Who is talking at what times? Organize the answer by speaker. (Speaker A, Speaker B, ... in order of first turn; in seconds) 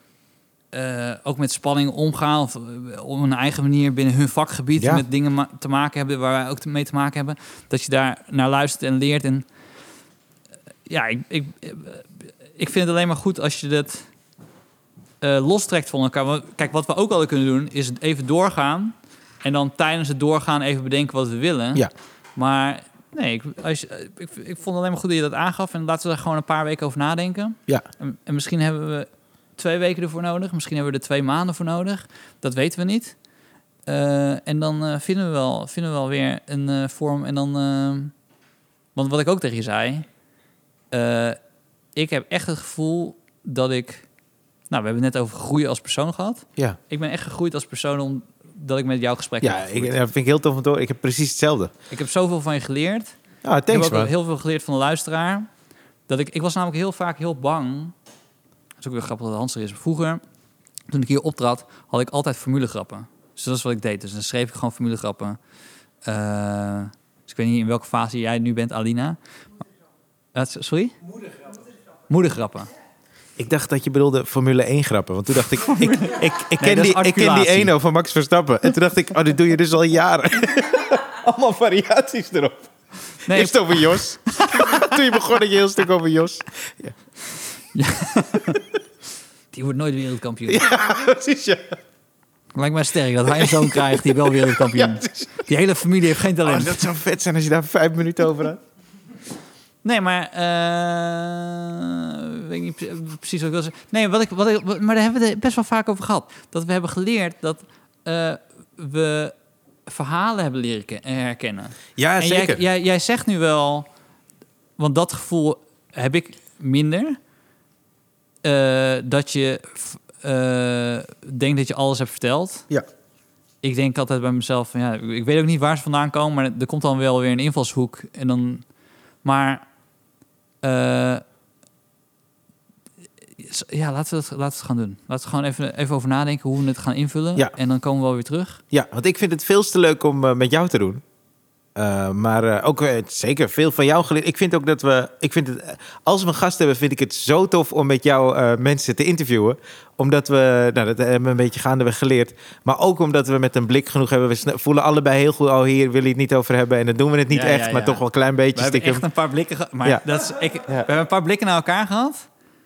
Speaker A: 0.7-9.4, 10.8-14.1, 15.2-33.1, 33.9-38.1, 38.9-40.0, 40.9-41.4, 41.9-44.0, 44.7-50.0, 51.9-53.1, 53.7-55.5, 56.1-57.9, 58.8-60.2, 60.9-65.4, 66.0-69.2, 70.3-71.0, 72.1-72.7, 75.6-77.7, 83.2-84.9, 87.7-88.6, 89.5-90.7, 92.5-96.8, 99.8-109.3, 109.9-113.9, 114.8-117.2, 118.4-122.6, 123.6-128.7, 129.2-129.6, 130.6-131.2, 133.4-138.6, 157.3-162.3
Speaker B: 4.8-5.0, 49.4-51.7, 53.4-54.1, 73.4-82.7, 83.3-86.9, 90.5-91.8, 93.3-95.3, 96.4-98.6, 112.0-112.6, 138.7-141.0, 141.8-159.0